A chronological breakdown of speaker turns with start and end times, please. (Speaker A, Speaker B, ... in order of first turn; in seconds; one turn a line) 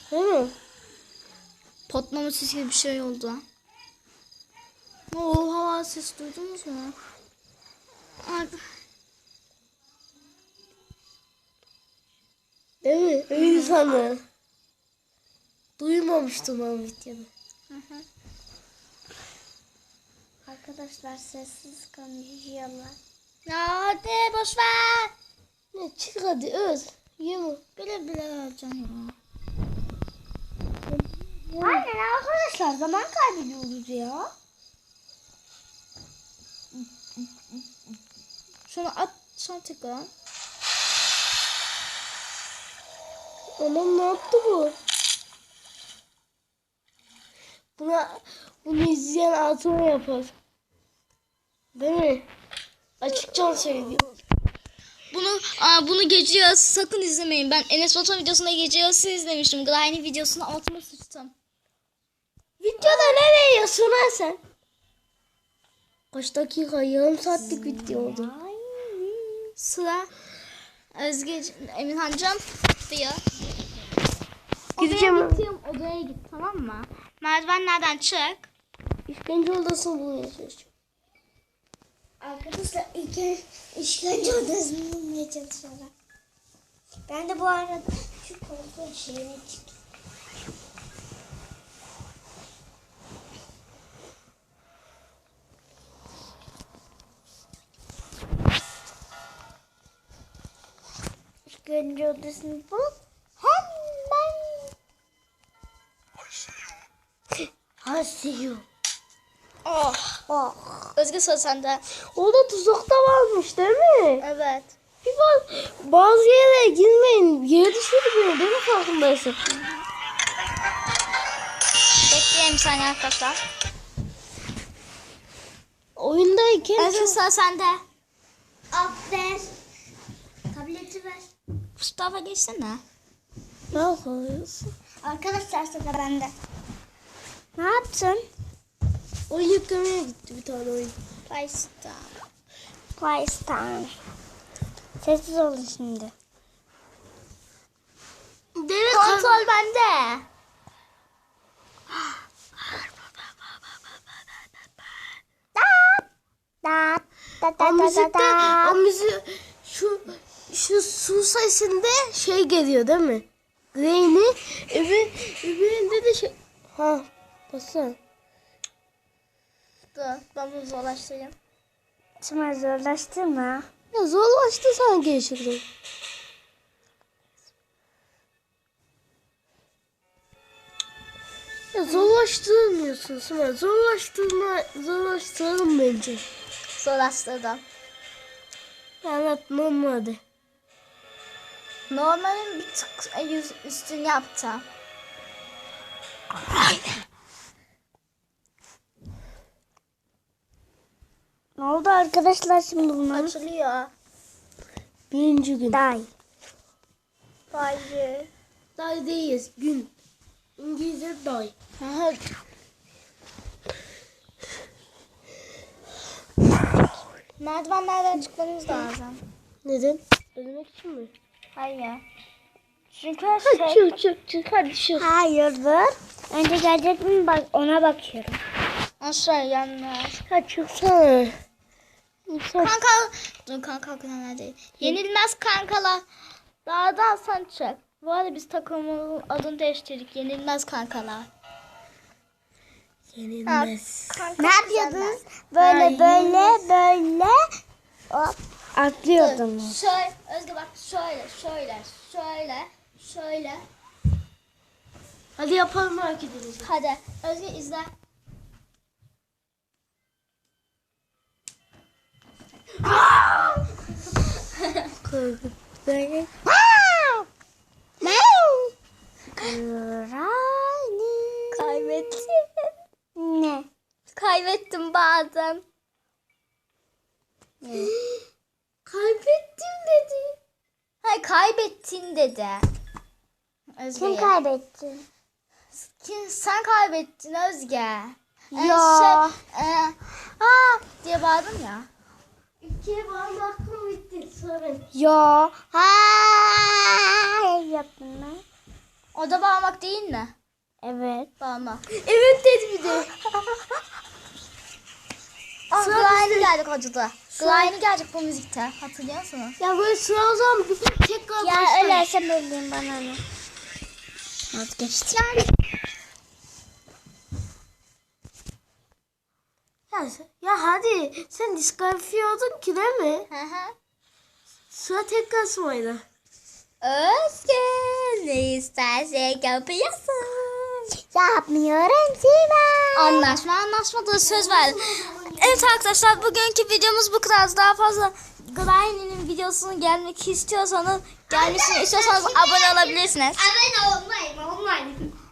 Speaker A: 0.1-0.5
Speaker B: 1.9-3.4
Speaker B: 5.1-7.0
Speaker B: 8.2-8.6
Speaker A: 12.8-14.2
Speaker B: 13.4-13.7
Speaker A: 15.8-17.3
Speaker B: 17.7-18.1
Speaker C: 20.4-23.0
Speaker B: 23.4-25.1
Speaker A: 25.7-27.6
Speaker B: 27.8-29.1
Speaker C: 31.5-34.3
Speaker B: 36.7-37.3
Speaker B: 38.7-40.1
Speaker A: 43.6-44.8
Speaker A: 47.8-50.3
Speaker A: 51.7-52.3
Speaker A: 53.0-54.1
Speaker B: 55.1-61.3
Speaker A: 62.6-64.4
Speaker A: 66.1-68.3
Speaker C: 67.4-69.5
Speaker B: 69.6-70.1
Speaker B: 70.9-73.2
Speaker B: 74.8-78.5
Speaker A: 74.8-75.4
Speaker A: 79.1-80.7
Speaker C: 82.2-85.9
Speaker C: 87.1-89.7
Speaker C: 101.5-104.7
Speaker A: 107.8-108.7
Speaker B: 109.7-110.2
Speaker C: 110.3-110.9
Speaker B: 111.0-111.8
Speaker A: 112.1-114.2
Speaker B: 114.2-114.7
Speaker A: 115.0-119.4
Speaker B: 122.1-123.4
Speaker A: 126.0-127.2
Speaker B: 126.8-127.8
Speaker C: 128.7-129.5
Speaker C: 130.5-131.3
Speaker B: 131.8-132.8
Speaker A: 133.7-134.7
Speaker C: 135.0-136.3
Speaker C: 137.5-138.2
Speaker A: 139.3-140.9
Speaker B: 141.3-142.2
Speaker C: 143.0-143.9
Speaker C: 145.0-146.1
Speaker A: 148.6-149.4
Speaker B: 148.9-150.2
Speaker C: 155.5-156.1
Speaker C: 156.6-158.8
Speaker A: 157.6-168.0
Speaker B: 169.9-171.3
Speaker C: 172.2-173.7
Speaker A: 173.9-175.6
Speaker A: 181.7-186.2
Speaker B: 186.8-187.6
Speaker A: 189.0-190.2
Speaker B: 191.9-194.6
Speaker A: 196.4-197.0
Speaker C: 201.6-203.3
Speaker B: 203.1-203.9
Speaker A: 205.1-205.8
Speaker C: 205.7-206.1
Speaker B: 207.5-208.3
Speaker A: 208.8-209.9
Speaker A: 210.6-211.5
Speaker B: 211.8-212.2
Speaker B: 217.4-219.2
Speaker A: 219.6-221.1
Speaker B: 221.6-222.0
Speaker B: 222.9-223.9
Speaker A: 223.4-225.1
Speaker C: 225.0-228.4
Speaker B: 229.0-230.2
Speaker A: 230.3-231.3
Speaker A: 232.3-232.7
Speaker B: 232.6-236.0
Speaker B: 236.6-241.3
Speaker A: 243.1-244.2
Speaker B: 243.4-245.2
Speaker C: 244.4-247.4
Speaker A: 245.6-246.6
Speaker C: 248.1-249.8
Speaker B: 249.1-253.6
Speaker A: 255.3-256.7
Speaker B: 256.6-257.9
Speaker A: 262.9-263.3
Speaker B: 264.6-264.9
Speaker A: 265.0-266.3
Speaker C: 266.4-267.3
Speaker C: 268.0-268.7
Speaker C: 269.4-272.2
Speaker B: 271.5-272.7
Speaker C: 273.1-273.7
Speaker B: 274.1-275.6
Speaker A: 277.8-278.1
Speaker A: 278.9-280.3
Speaker B: 281.0-282.7
Speaker B: 283.8-284.3
Speaker C: 283.9-285.0
Speaker B: 285.8-291.9
Speaker C: 288.5-289.4
Speaker A: 292.6-294.8
Speaker C: 294.9-298.4
Speaker B: 299.1-300.3
Speaker C: 300.8-301.3
Speaker B: 301.4-301.8
Speaker A: 301.9-303.1
Speaker B: 305.7-309.6
Speaker A: 305.7-306.5
Speaker C: 307.4-307.7
Speaker A: 309.6-312.0
Speaker C: 311.4-313.2
Speaker C: 314.5-315.5
Speaker A: 319.9-323.3
Speaker B: 323.3-323.7
Speaker A: 324.7-326.0
Speaker B: 326.8-330.9
Speaker C: 331.1-333.4
Speaker B: 332.9-334.8
Speaker A: 334.2-336.2
Speaker B: 335.4-343.4
Speaker C: 341.3-345.1